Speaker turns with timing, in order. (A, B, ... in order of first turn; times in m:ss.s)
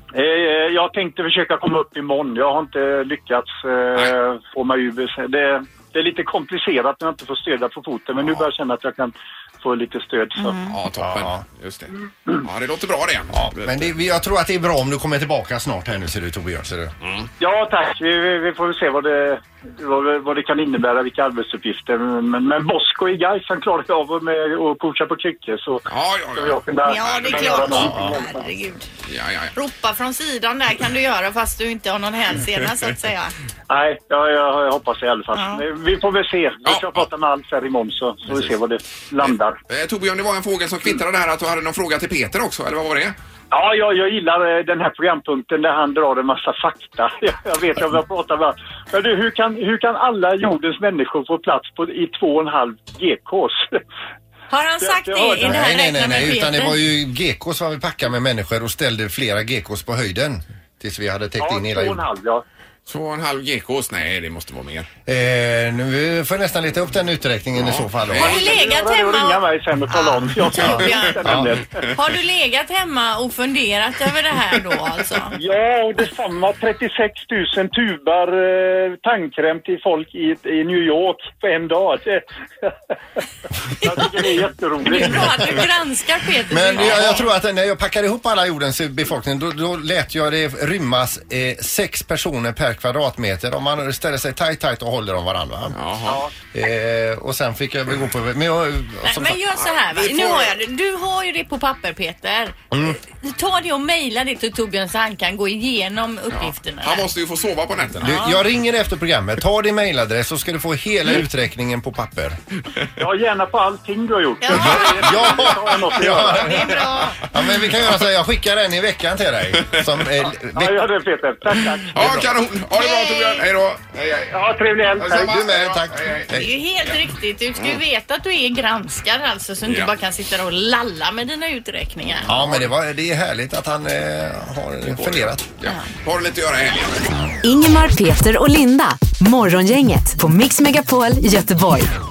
0:00.1-0:10.6 A
0:10.6-0:14.0 B
0:11.0-0:11.4 C
0:13.3-0:16.9 C
0:17.0-0:17.3 B
0:17.4-0:28.4 A
0:25.9-0:27.9 B
0:26.8-0:28.8 D
0:27.8-0:28.1 C
0:29.0-0:29.5 B
0:29.5-0:33.3 D
0:33.7-0:39.6 A
0:35.3-0:35.6 D
0:36.6-0:37.1 B
0:39.2-0:43.1 B
0:43.5-0:53.7 A
0:54.5-0:56.8 D
0:54.8-0:55.6 A
0:55.4-1:02.0 C
1:01.4-1:02.4 A
1:02.9-1:04.9 B
1:05.1-1:08.4 C
1:07.6-1:08.4 B
1:08.1-1:11.8 A
1:08.2-1:11.3 D
1:10.6-1:11.5 C
1:10.6-1:10.9 B
1:11.9-1:15.4 D
1:15.3-1:22.7 A
1:23.8-1:25.6 A
1:24.8-1:27.3 D
1:26.5-1:35.8 C
1:26.8-1:27.2 B
1:35.7-1:36.2 B
1:36.5-1:39.4 C
1:39.0-1:47.1 D
1:39.9-1:40.5 B
1:42.7-1:43.0 C
1:46.3-1:48.2 B
1:48.0-1:52.4 C
1:53.0-1:56.7 A
1:54.4-1:57.2 D
1:54.5-2:00.8 C
2:00.5-2:02.3 A
2:01.9-2:04.3 B
2:02.8-2:03.4 D
2:04.3-2:05.3 A
2:04.9-2:06.3 B
2:05.0-2:06.5 C
2:06.3-2:12.3 D
2:09.6-2:09.9 B
2:12.3-2:12.7 B
2:12.3-2:15.4 C
2:14.9-2:17.1 B
2:17.4-2:21.9 E